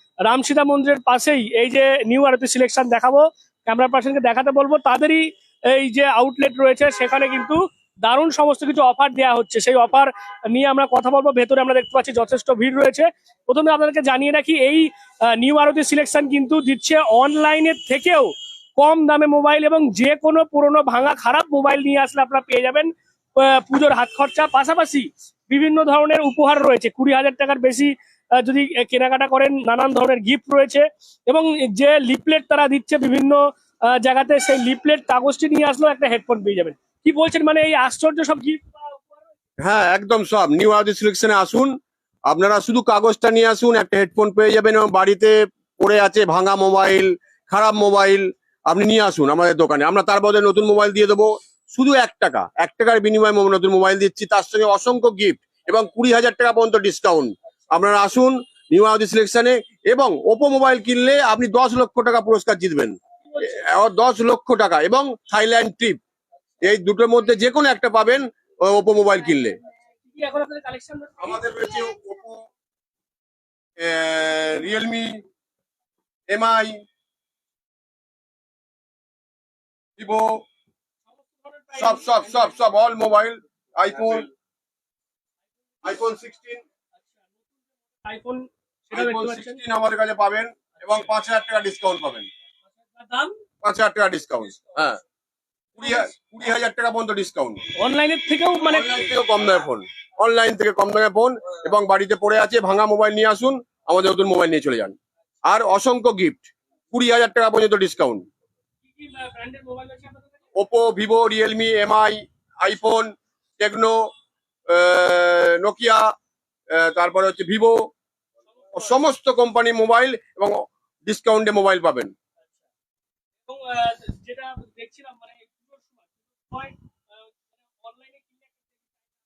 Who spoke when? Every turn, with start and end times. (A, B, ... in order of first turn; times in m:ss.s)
0:00.2-0:39.2 A
0:39.6-0:41.7 B
0:42.3-1:06.0 B
1:06.6-1:09.6 B
1:10.0-1:11.6 A
1:11.2-1:12.4 B
1:13.8-1:15.2 B
1:16.3-1:16.8 B
1:20.0-1:20.4 B
1:21.2-1:22.6 A
1:21.8-1:24.3 B
1:25.8-1:26.6 B
1:28.0-1:29.6 A
1:28.9-1:32.3 B
1:33.0-1:33.4 A
1:33.6-1:35.0 B
1:35.8-1:37.6 B
1:37.8-1:39.1 A
1:38.7-1:44.9 B
1:45.4-1:48.2 B
1:48.8-1:50.4 A
1:50.6-1:54.1 B
1:54.7-1:56.1 B
1:56.7-1:57.8 B
1:58.5-1:59.0 A
1:58.7-2:02.1 B
2:03.5-2:06.8 A
2:07.7-2:09.1 A